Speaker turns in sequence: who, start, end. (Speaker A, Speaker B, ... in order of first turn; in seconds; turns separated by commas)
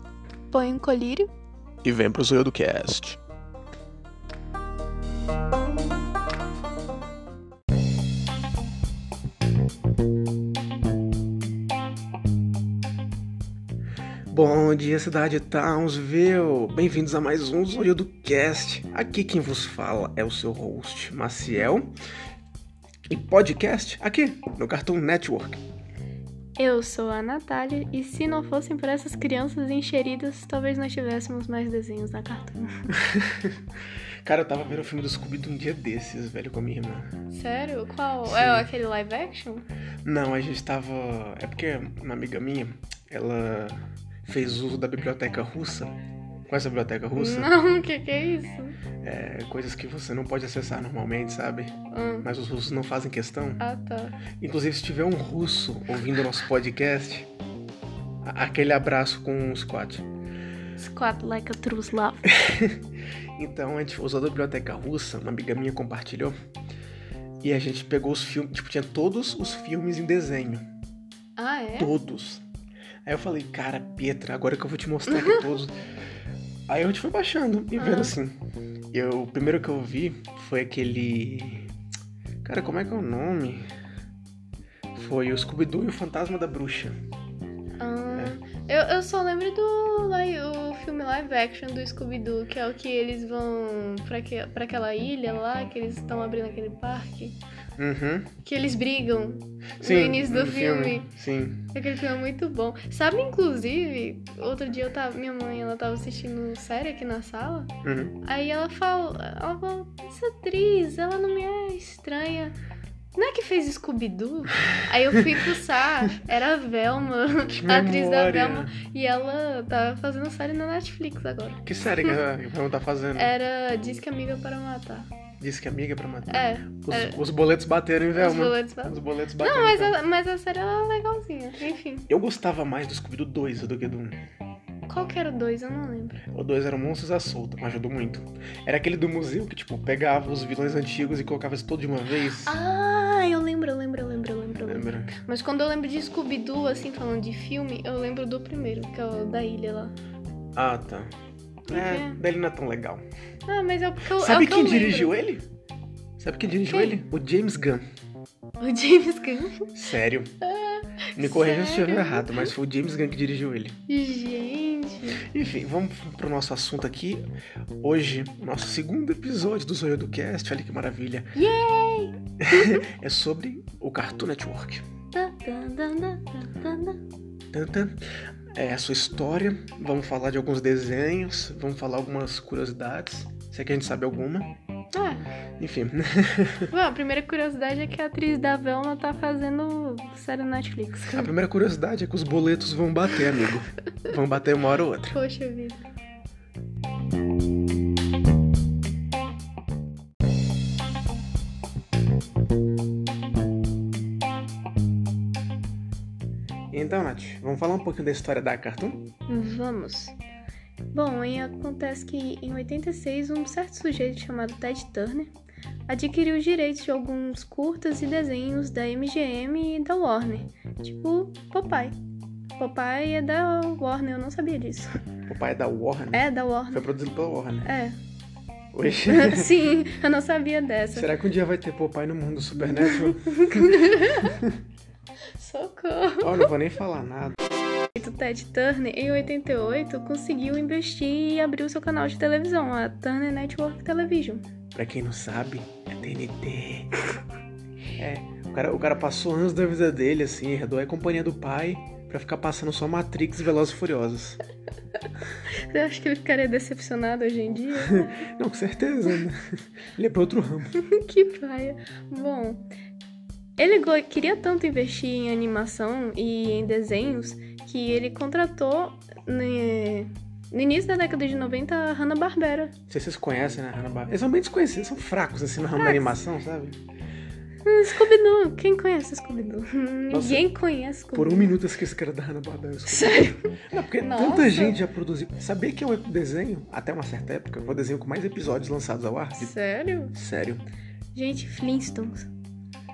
Speaker A: 0.5-1.3, Speaker B: 1.8-3.2, Speaker B: 14.3-21.9, Speaker B: 23.1-25.6, Speaker A: 26.6-32.9, Speaker B: 32.9-33.6, Speaker B: 34.2-37.1, Speaker A: 37.3-39.6, Speaker B: 38.2-38.7, Speaker B: 40.0-46.0, Speaker B: 46.5-47.5, Speaker A: 47.1-48.8, Speaker B: 49.0-53.6, Speaker A: 51.9-52.3, Speaker A: 53.6-54.2, Speaker B: 54.4-57.3, Speaker B: 58.2-60.0, Speaker A: 60.8-62.2, Speaker B: 62.2-66.3, Speaker B: 67.4-70.6, Speaker A: 71.4-72.0, Speaker B: 71.8-72.4, Speaker B: 73.0-75.7, Speaker A: 75.1-75.5, Speaker B: 76.7-78.3, Speaker A: 77.8-78.1, Speaker B: 78.9-81.7, Speaker B: 82.4-83.6, Speaker B: 84.9-86.9, Speaker A: 87.8-97.4, Speaker B: 88.1-88.4, Speaker B: 97.8-98.3, Speaker A: 98.4-101.1, Speaker B: 99.8-101.7, Speaker A: 101.7-112.5, Speaker B: 107.8-108.2, Speaker A: 113.1-122.1, Speaker B: 117.5-118.7, Speaker B: 121.6-123.3, Speaker A: 123.2-125.1, Speaker B: 125.4-130.0, Speaker A: 126.3-127.2, Speaker A: 128.1-132.1, Speaker B: 132.1-134.2, Speaker A: 134.9-136.2, Speaker B: 136.3-142.6, Speaker A: 142.4-149.9, Speaker B: 144.6-145.1, Speaker B: 150.6-151.1, Speaker A: 151.7-152.2, Speaker B: 151.7-153.0, Speaker A: 153.5-155.1, Speaker B: 154.2-155.5, Speaker B: 156.2-157.8, Speaker A: 156.7-157.0, Speaker A: 158.6-159.7, Speaker B: 159.7-160.3, Speaker A: 160.4-162.5, Speaker B: 161.2-163.8, Speaker A: 163.9-165.2, Speaker B: 165.2-167.2, Speaker B: 167.8-171.3, Speaker A: 171.3-172.8, Speaker B: 172.4-174.8, Speaker A: 175.1-177.0, Speaker B: 177.5-178.0, Speaker B: 178.5-184.6, Speaker A: 184.9-185.2, Speaker B: 185.6-186.7, Speaker A: 186.7-191.3, Speaker B: 191.1-195.2, Speaker A: 195.1-195.8, Speaker B: 206.7-209.1, Speaker A: 209.3-210.2, Speaker A: 210.9-215.3, Speaker A: 215.9-221.9, Speaker A: 222.6-224.9, Speaker B: 225.2-227.7, Speaker A: 226.1-226.8, Speaker A: 227.6-228.0, Speaker B: 228.7-229.6, Speaker A: 229.1-231.1, Speaker B: 230.9-234.6, Speaker A: 232.6-234.4, Speaker A: 235.3-236.5, Speaker B: 236.2-237.4, Speaker A: 237.9-244.4, Speaker B: 244.7-247.0, Speaker B: 248.0-254.4, Speaker A: 255.5-258.2, Speaker B: 257.9-259.4, Speaker B: 259.9-260.8, Speaker A: 260.8-262.7, Speaker A: 263.6-272.7, Speaker B: 272.9-276.8, Speaker A: 275.8-276.1, Speaker A: 277.6-281.5, Speaker B: 280.1-280.4, Speaker B: 281.1-289.5, Speaker A: 282.9-284.8, Speaker A: 289.4-290.1, Speaker B: 290.1-290.6, Speaker A: 291.1-292.3